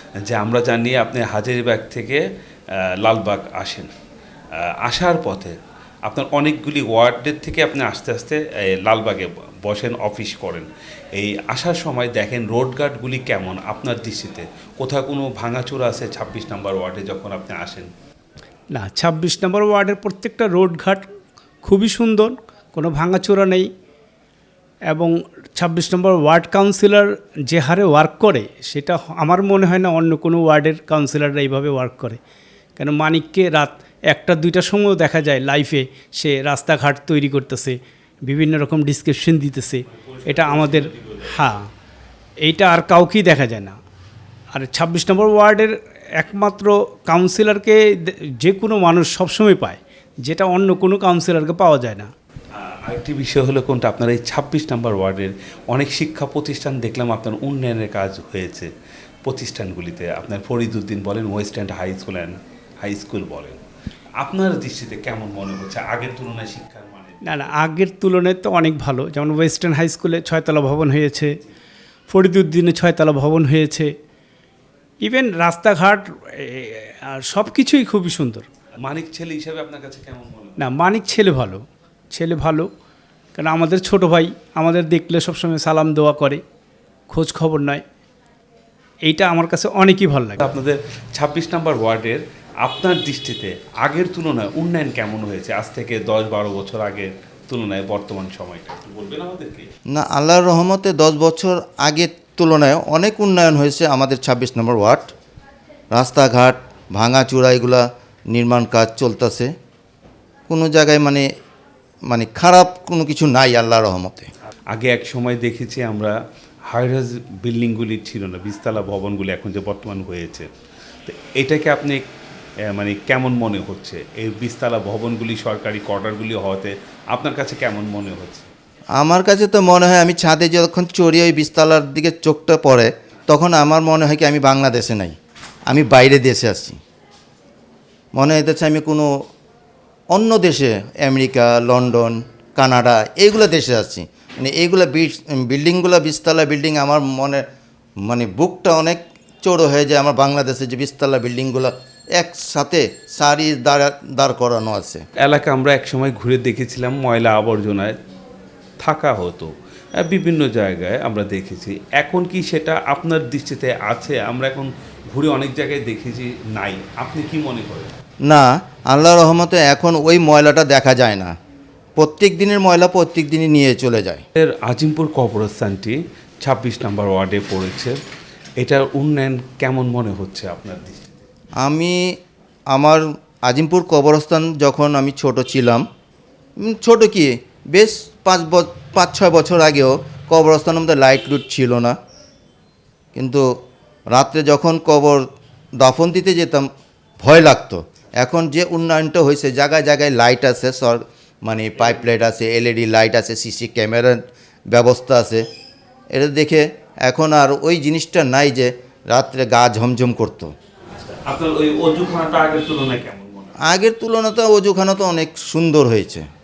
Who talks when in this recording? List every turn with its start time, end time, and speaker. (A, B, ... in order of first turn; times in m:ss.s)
0:00.2-0:02.2 A
0:02.8-0:03.9 A
0:04.6-0:17.9 A
0:18.7-0:21.1 B
0:21.6-0:23.7 B
0:24.9-0:32.2 B
0:32.8-0:41.7 B
0:39.9-0:41.6 A
0:42.4-0:43.8 B
0:44.5-0:52.1 B
0:52.6-0:58.7 A
0:59.2-1:03.6 A
1:04.2-1:07.6 A
1:07.2-1:11.4 B
1:12.1-1:13.9 B
1:15.0-1:18.5 B
1:18.8-1:20.7 A
1:20.6-1:22.7 B
1:23.4-1:26.4 B
1:27.1-1:27.8 B
1:29.1-1:30.5 B
1:30.4-1:39.7 A
1:39.9-1:45.1 C
1:45.9-1:49.5 C
1:50.5-1:51.2 C
1:52.1-1:54.3 C
1:54.7-1:56.2 A
1:56.7-2:00.5 A
2:01.0-2:02.1 A
2:02.7-2:08.5 A
2:09.0-2:15.2 C
2:15.7-2:16.8 C
2:18.1-2:19.2 C
2:20.1-2:27.4 C
2:28.0-2:35.0 C
2:35.2-2:38.0 A
2:38.8-2:48.0 A
2:48.3-2:51.3 C
2:52.0-2:54.2 C
2:54.4-2:58.0 A
2:58.6-3:01.3 A
3:01.6-3:02.2 C
3:02.7-3:05.8 C
3:06.6-3:12.0 C
3:13.2-3:13.5 C
3:14.1-3:15.2 C
3:15.8-3:16.7 C
3:17.2-3:25.4 C
3:26.1-3:30.5 C
3:31.1-3:33.6 A
3:33.6-3:36.3 C